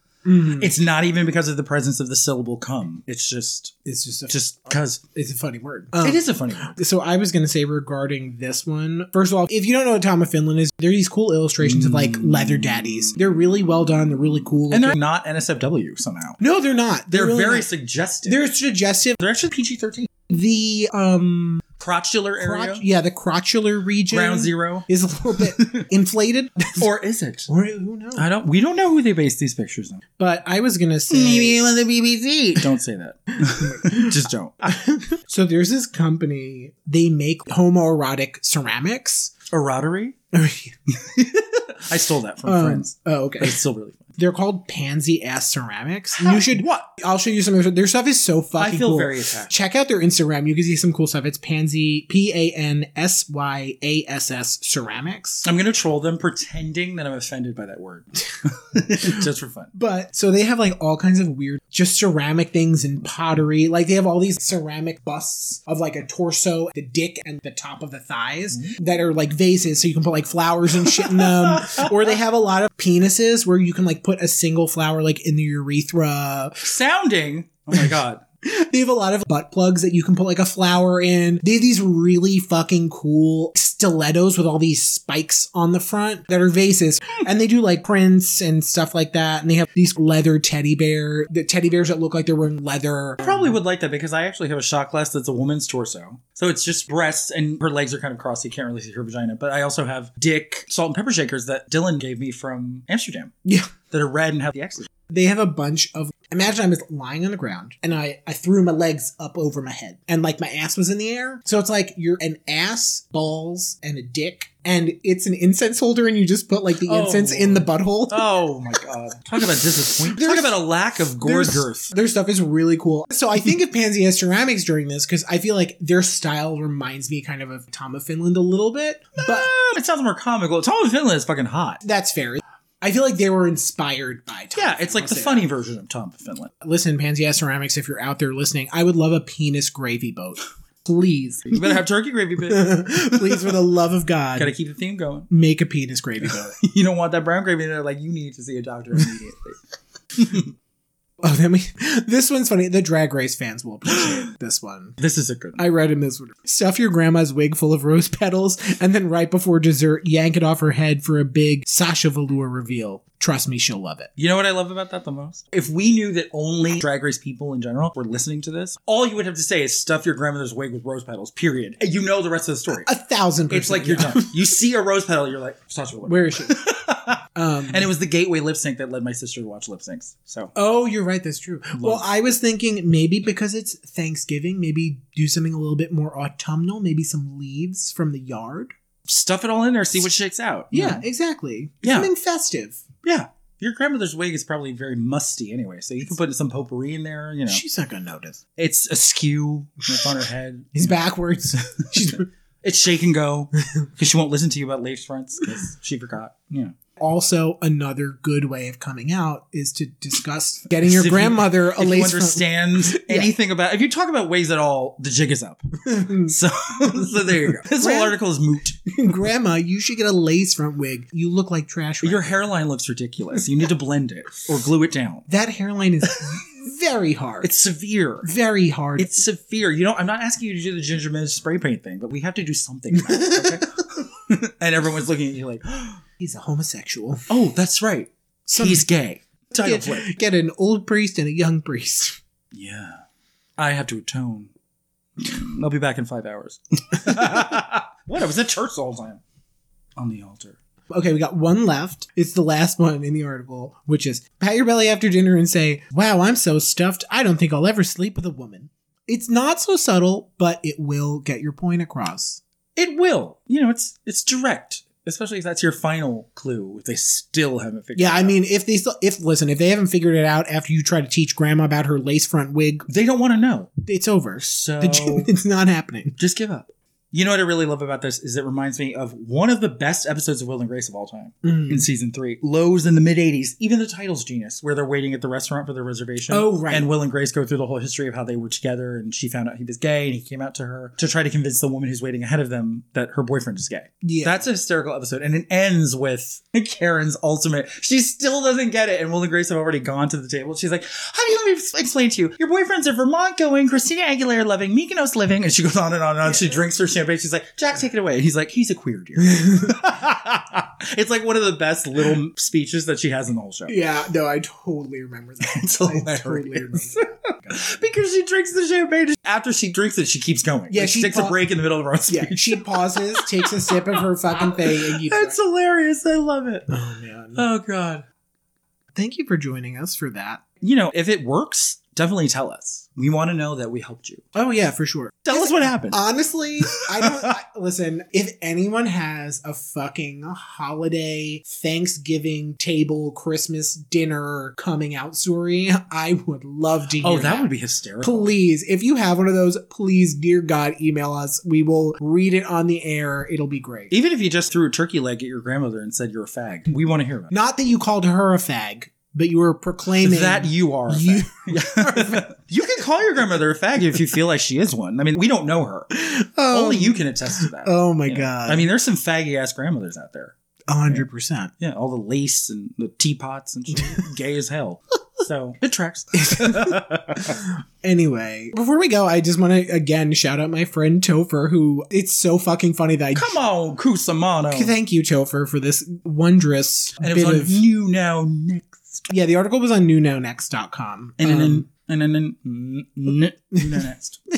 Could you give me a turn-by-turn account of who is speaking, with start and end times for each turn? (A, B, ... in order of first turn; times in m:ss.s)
0:00.2-0:00.7 A
0:00.4-0:03.8 B
0:03.8-0:15.0 A
0:04.3-0:05.0 B
0:06.0-0:06.8 B
0:11.6-0:13.2 B
0:14.7-0:16.4 B
0:16.4-0:17.7 A
0:17.1-0:18.4 B
0:18.3-0:19.2 A
0:19.2-0:20.1 B
0:20.3-0:21.7 A
0:21.8-0:22.8 B
0:22.4-0:26.8 A
0:24.1-0:25.9 B
0:26.8-0:27.5 B
0:27.5-0:28.3 A
0:28.2-0:30.0 B
0:30.2-0:31.6 A
0:31.1-0:34.7 B
0:33.4-0:39.3 A
0:39.5-0:40.2 B
0:40.3-0:40.8 A
0:40.9-0:44.1 B
0:42.4-0:43.6 A
0:44.2-0:55.5 A
0:46.2-0:46.8 B
0:48.6-0:49.5 B
0:55.4-0:59.7 B
0:59.7-1:16.7 A
1:10.8-1:12.2 B
1:16.6-1:18.2 B
1:18.4-1:33.5 A
1:33.2-1:43.3 B
1:43.4-1:43.7 A
1:43.9-1:44.9 B
1:45.1-1:58.3 A
1:56.8-2:01.9 B
2:00.1-2:00.6 A
2:01.2-2:09.5 A
2:09.2-2:11.8 B
2:11.8-2:15.5 A
2:14.6-2:16.5 B
2:16.6-2:21.8 A
2:21.5-2:23.6 B
2:22.4-2:24.5 A
2:24.4-2:25.3 B
2:25.3-2:26.6 A
2:26.2-2:29.6 B
2:30.2-2:30.5 B
2:31.2-2:35.0 A
2:33.9-2:34.3 B
2:35.0-2:35.6 B
2:35.6-2:44.1 A
2:44.2-2:52.9 B
2:52.8-2:54.4 A
2:53.5-3:00.5 B
2:56.1-2:56.6 A
2:57.4-2:57.9 A
3:00.6-3:08.7 A
3:01.8-3:02.1 B
3:09.1-3:11.0 B
3:10.7-3:12.8 A
3:11.8-3:12.1 B
3:13.0-3:17.6 B
3:17.5-3:18.4 A
3:18.6-3:21.0 B
3:20.8-3:22.3 A
3:21.6-3:26.8 B
3:27.0-3:33.3 A
3:30.8-3:38.8 B
3:35.9-3:38.2 A
3:38.9-3:42.4 A
3:42.0-3:45.3 B
3:45.3-3:47.5 A
3:47.4-3:48.3 B
3:48.2-3:49.1 A
3:49.0-3:56.0 B
3:52.9-3:53.7 A
3:56.2-3:57.2 A
3:57.3-4:00.1 B
3:58.5-3:58.9 A
3:59.6-4:02.2 A
4:02.5-4:03.0 B
4:03.6-4:04.5 B
4:05.2-4:09.2 B
4:10.0-4:10.6 B
4:10.9-4:22.4 A
4:22.8-4:28.4 B
4:28.0-4:32.9 A
4:32.9-4:33.7 B
4:33.8-4:36.2 A
4:34.4-4:35.3 B
4:36.2-5:13.8 B
4:41.4-4:41.8 A
4:46.3-4:46.9 A
4:54.0-4:54.4 A
5:06.3-5:06.5 A
5:09.2-5:09.9 A
5:13.7-5:17.7 A
5:15.5-5:26.7 B
5:20.7-5:21.4 A
5:22.1-5:25.4 A
5:26.7-5:27.4 A
5:27.4-5:28.1 B
5:29.0-5:30.4 A
5:30.6-5:34.2 B
5:34.3-5:47.5 A
5:35.3-5:36.0 B
5:36.7-5:37.3 B
5:47.0-5:48.3 B
5:48.0-5:53.9 A
5:53.9-5:57.3 B
5:57.3-6:02.3 A
6:00.0-6:05.9 B
6:05.9-6:08.7 A
6:06.5-6:10.4 B
6:10.7-6:11.5 A
6:11.6-6:17.4 B
6:16.1-6:23.4 A
6:23.1-6:24.7 B
6:24.5-6:27.6 A
6:27.0-6:29.0 B
6:29.1-6:31.7 A
6:31.2-6:34.2 B
6:33.6-6:33.8 A